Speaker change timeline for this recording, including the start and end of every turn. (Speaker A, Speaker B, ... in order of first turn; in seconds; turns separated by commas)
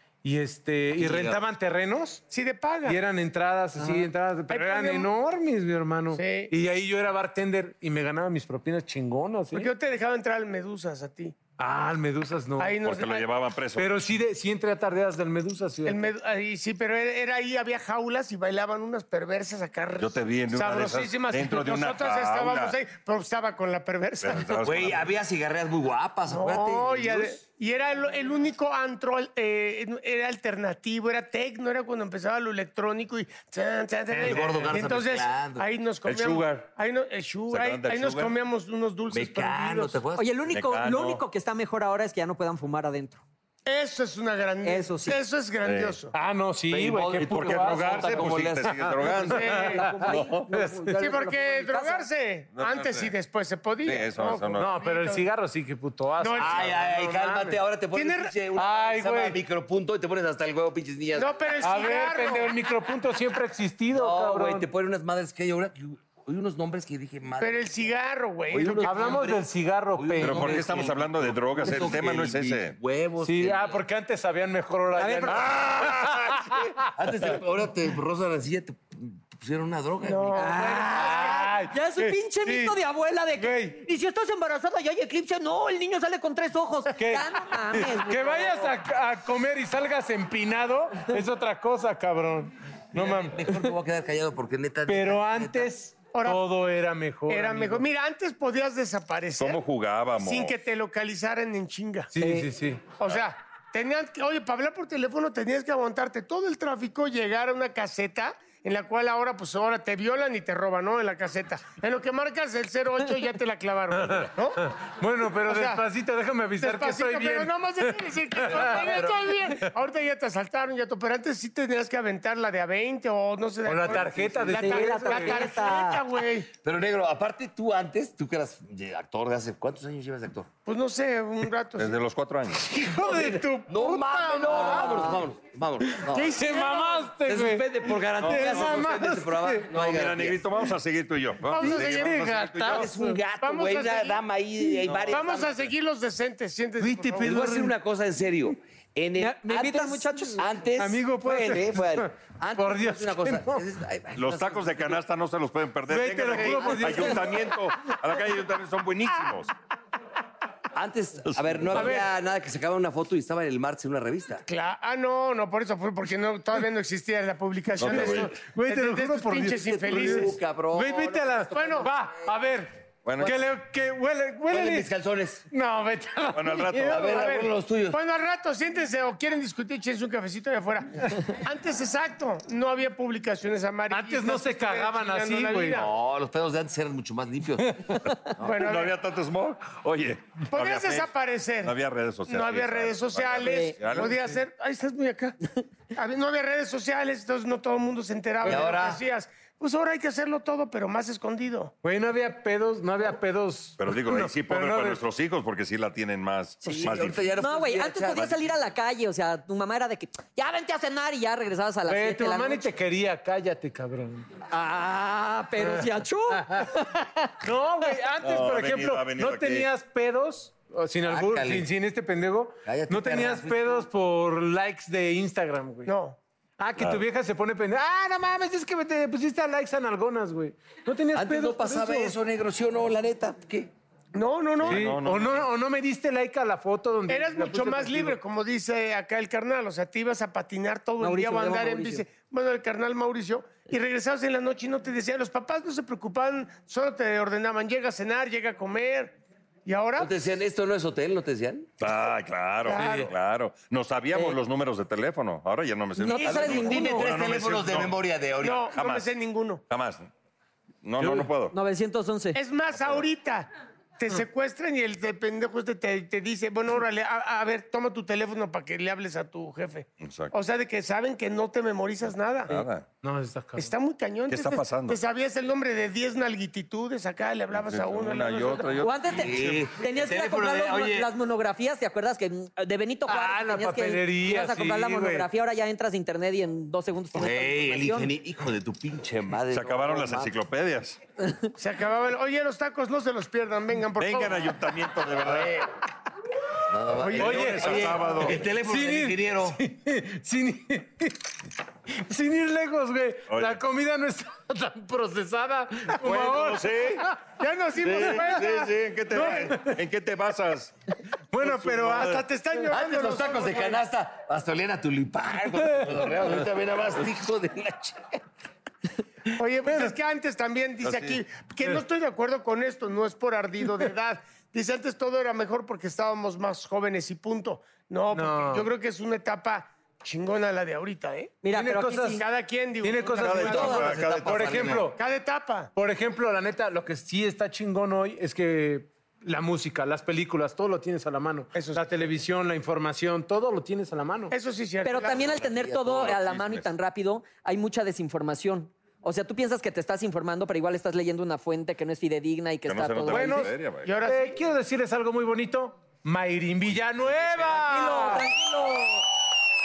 Speaker A: 0.2-2.2, Speaker B: 0.9-1.4, Speaker C: 2.3-3.0, Speaker A: 2.9-9.7, Speaker D: 3.8-4.0, Speaker C: 4.5-5.1, Speaker C: 6.1-6.5, Speaker C: 9.5-11.3, Speaker A: 11.6-12.8, Speaker C: 12.6-13.3, Speaker E: 12.8-13.9, Speaker A: 13.8-16.1, Speaker C: 15.8-24.6, Speaker E: 20.0-22.8, Speaker E: 24.2-25.1, Speaker B: 24.5-27.4, Speaker C: 26.3-40.0, Speaker B: 34.1-35.6, Speaker E: 36.0-36.6, Speaker E: 37.5-38.3, Speaker B: 39.1-40.3, Speaker D: 40.2-43.2, Speaker E: 40.5-41.2, Speaker C: 43.6-46.1, Speaker D: 44.6-45.2, Speaker E: 45.6-46.0, Speaker A: 46.1-51.0, Speaker B: 46.7-48.9, Speaker E: 47.2-50.5, Speaker C: 49.2-49.9, Speaker D: 49.6-52.1, Speaker C: 50.9-55.3, Speaker E: 52.5-53.1, Speaker E: 53.8-54.7, Speaker A: 54.5-57.1, Speaker C: 56.2-58.3, Speaker B: 56.4-61.5, Speaker A: 58.5-59.4, Speaker C: 61.1-62.6, Speaker A: 61.6-64.7, Speaker B: 63.9-67.7, Speaker C: 67.4-69.3, Speaker B: 68.5-73.8, Speaker A: 68.8-70.6, Speaker E: 70.2-72.8, Speaker A: 73.2-76.9, Speaker D: 75.0-75.4, Speaker B: 75.3-80.6, Speaker C: 80.0-81.5, Speaker D: 80.3-88.7, Speaker A: 80.8-82.8, Speaker A: 83.4-83.8, Speaker A: 86.9-93.7, Speaker B: 92.9-95.7, Speaker A: 94.9-97.8, Speaker C: 96.1-96.5, Speaker C: 97.3-99.6, Speaker E: 99.4-100.5, Speaker C: 100.2-102.1, Speaker A: 102.1-102.9, Speaker D: 102.2-102.5, Speaker C: 103.0-114.6, Speaker A: 113.9-118.9, Speaker C: 115.4-115.8, Speaker C: 116.6-126.5, Speaker B: 118.5-119.4, Speaker A: 123.7-125.4, Speaker B: 123.9-124.2, Speaker D: 124.5-126.0, Speaker B: 126.6-130.5, Speaker C: 130.7-132.0, Speaker E: 131.8-132.6, Speaker A: 132.6-135.2, Speaker B: 133.1-140.4, Speaker C: 133.9-135.1, Speaker A: 135.8-139.7, Speaker C: 136.4-137.0, Speaker E: 138.2-138.7, Speaker E: 139.7-142.9, Speaker C: 141.5-142.7, Speaker A: 141.6-143.2, Speaker B: 142.6-145.7, Speaker C: 143.4-144.2, Speaker E: 144.9-145.2, Speaker C: 145.1-147.3, Speaker A: 146.8-147.7, Speaker B: 147.2-155.0, Speaker D: 149.2-150.4, Speaker A: 150.8-153.6, Speaker E: 154.2-159.5, Speaker A: 155.9-157.4, Speaker C: 156.3-157.1, Speaker B: 156.7-157.1, Speaker B: 160.7-164.4, Speaker E: 161.2-162.0, Speaker A: 161.8-162.0, Speaker C: 164.5-170.3, Speaker E: 167.8-168.4, Speaker A: 167.9-174.9, Speaker B: 169.5-172.3, Speaker C: 171.5-171.9, Speaker E: 173.0-173.3, Speaker B: 174.5-175.4, Speaker A: 175.5-177.5, Speaker E: 176.3-177.1, Speaker B: 176.9-178.0, Speaker C: 177.9-185.9, Speaker A: 183.9-185.8, Speaker B: 185.7-188.6, Speaker A: 187.7-188.0, Speaker C: 188.4-188.9, Speaker E: 188.5-194.3, Speaker C: 190.5-195.4, Speaker D: 193.4-193.7, Speaker C: 195.9-201.7, Speaker B: 198.4-199.0, Speaker A: 201.8-205.0, Speaker E: 203.8-207.3, Speaker B: 206.6-208.4, Speaker D: 207.4-212.7, Speaker A: 211.9-214.3, Speaker D: 214.5-217.3, Speaker A: 215.6-216.7, Speaker A: 217.4-225.9, Speaker E: 218.2-219.7, Speaker B: 221.0-221.7, Speaker B: 222.6-223.8, Speaker C: 225.8-226.2, Speaker A: 226.6-232.1, Speaker E: 226.8-227.0, Speaker B: 231.1-233.7, Speaker C: 234.1-235.0, Speaker E: 234.6-235.4, Speaker A: 234.7-238.2, Speaker C: 237.1-250.1, Speaker D: 241.0-242.0, Speaker B: 250.0-251.7, Speaker E: 251.8-258.0, Speaker C: 252.6-253.1, Speaker D: 255.9-257.1, Speaker C: 256.1-256.9, Speaker B: 256.2-258.7, Speaker C: 258.4-259.6, Speaker E: 258.7-259.1, Speaker E: 259.7-260.1, Speaker E: 260.8-261.5, Speaker D: 261.0-262.4, Speaker C: 262.3-272.6, Speaker E: 262.7-263.0, Speaker E: 270.0-270.3, Speaker E: 272.5-272.9, Speaker A: 273.0-273.7, Speaker C: 273.6-278.8, Speaker E: 274.3-275.0, Speaker E: 277.5-279.6, Speaker D: 278.8-288.1, Speaker B: 279.1-281.1, Speaker A: 283.1-285.3, Speaker B: 287.1-290.3, Speaker E: 289.5-291.0, Speaker C: 291.6-294.5, Speaker E: 294.0-295.6, Speaker B: 295.2-295.7, Speaker B: 296.7-299.6, Speaker E: 297.1-298.5, Speaker A: 297.2-298.0, Speaker A: 298.5-301.2, Speaker A: 301.9-307.2, Speaker E: 303.3-303.6, Speaker E: 305.9-307.0, Speaker C: 307.4-309.5, Speaker E: 307.8-310.7, Speaker A: 309.1-309.8, Speaker A: 311.3-312.2, Speaker E: 311.4-312.2, Speaker C: 311.8-313.8, Speaker B: 312.7-318.2, Speaker C: 319.4-331.4, Speaker A: 319.6-319.9, Speaker E: 320.8-321.2, Speaker A: 328.1-328.7, Speaker D: 331.4-332.2, Speaker A: 331.5-332.2, Speaker C: 332.2-333.9, Speaker A: 332.8-335.0, Speaker E: 333.1-334.6, Speaker B: 333.4-334.9, Speaker C: 334.9-335.7, Speaker A: 335.8-344.3, Speaker C: 341.5-342.1, Speaker C: 344.3-345.2, Speaker D: 344.8-353.5, Speaker B: 345.0-346.1, Speaker E: 345.9-346.7, Speaker E: 352.6-354.0, Speaker A: 353.1-358.2, Speaker C: 353.8-354.4, Speaker E: 356.6-357.4, Speaker B: 357.1-357.5, Speaker D: 357.5-359.0